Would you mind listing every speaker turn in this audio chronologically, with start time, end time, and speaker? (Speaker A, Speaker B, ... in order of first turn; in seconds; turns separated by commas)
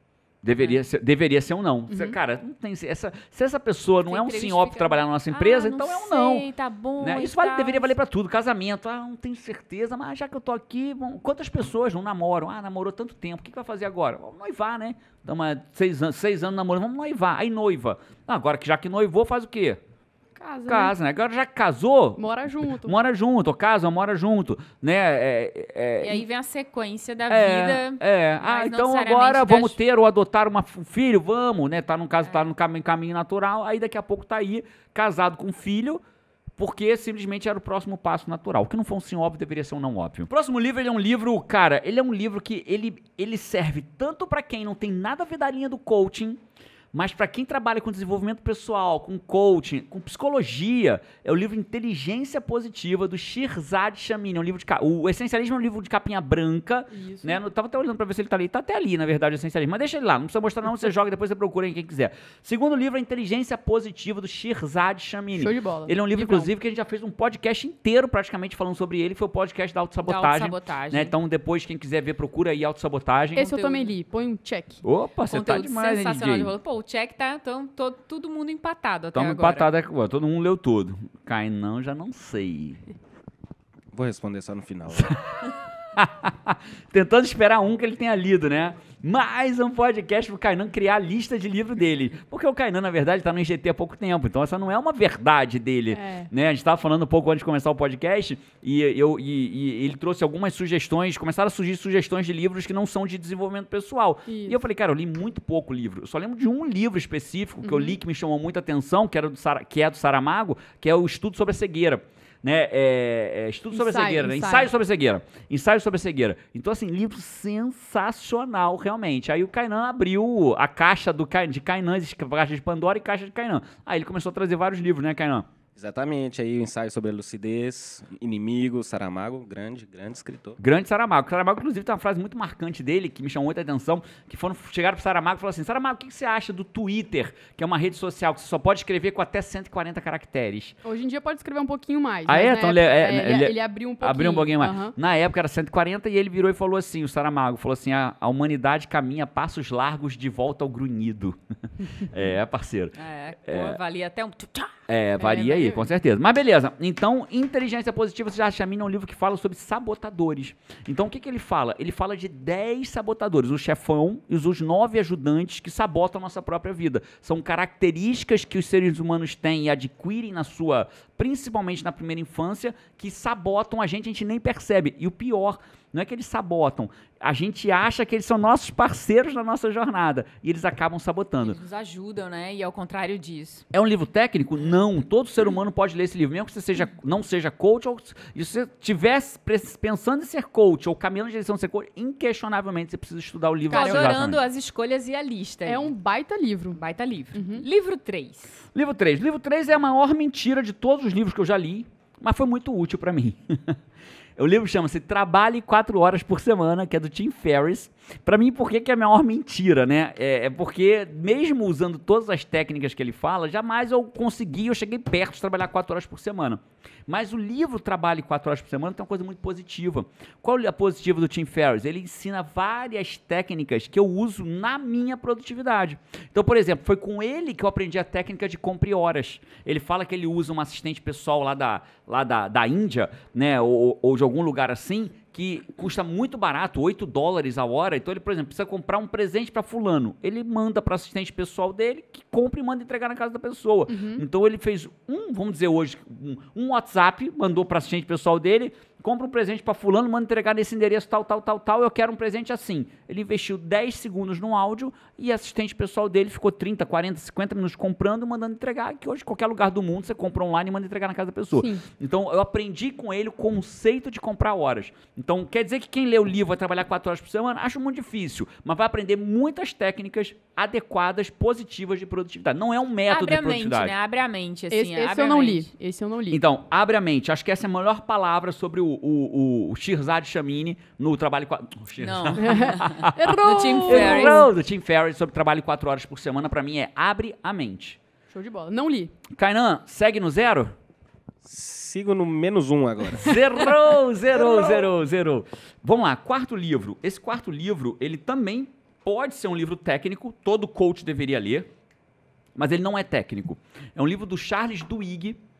Speaker A: 0.4-6.5, Speaker B: 1.9-2.2, Speaker C: 4.0-7.9, Speaker A: 7.0-19.8, Speaker B: 20.4-20.9, Speaker A: 20.6-26.2, Speaker B: 22.2-22.9, Speaker C: 26.0-29.8, Speaker A: 27.3-36.0, Speaker A: 36.6-46.4, Speaker A: 46.9-73.5, Speaker B: 56.9-57.4, Speaker B: 65.3-66.5, Speaker C: 70.0-71.1, Speaker B: 73.3-74.8, Speaker C: 73.4-73.9, Speaker A: 74.8-76.5, Speaker C: 75.3-79.7, Speaker A: 79.1-82.8, Speaker D: 83.9-85.1, Speaker A: 84.9-125.5, Speaker B: 95.9-96.3, Speaker B: 104.3-104.6, Speaker B: 107.6-108.0, Speaker B: 113.7-114.7, Speaker D: 125.8-130.6, Speaker A: 130.6-140.8, Speaker B: 140.8-144.9, Speaker A: 142.2-151.4, Speaker A: 151.9-153.8, Speaker C: 152.9-154.8, Speaker A: 154.9-181.6, Speaker B: 155.2-155.9, Speaker C: 181.4-183.6, Speaker A: 183.7-194.4, Speaker B: 193.7-194.1, Speaker C: 193.7-195.9, Speaker B: 195.7-196.8, Speaker C: 196.7-198.6, Speaker B: 197.3-197.7, Speaker A: 198.7-203.8, Speaker A: 204.4-273.9, Speaker B: 243.9-244.2, Speaker B: 261.5-261.8, Speaker C: 273.1-275.7, Speaker B: 274.7-276.4, Speaker A: 276.3-283.3, Speaker C: 282.0-284.5, Speaker B: 282.4-284.5, Speaker A: 283.8-288.0, Speaker B: 288.3-289.1, Speaker A: 289.3-290.7, Speaker D: 291.4-293.4, Speaker A: 293.2-301.7, Speaker B: 293.4-293.8, Speaker B: 294.4-294.9, Speaker A: 302.6-305.4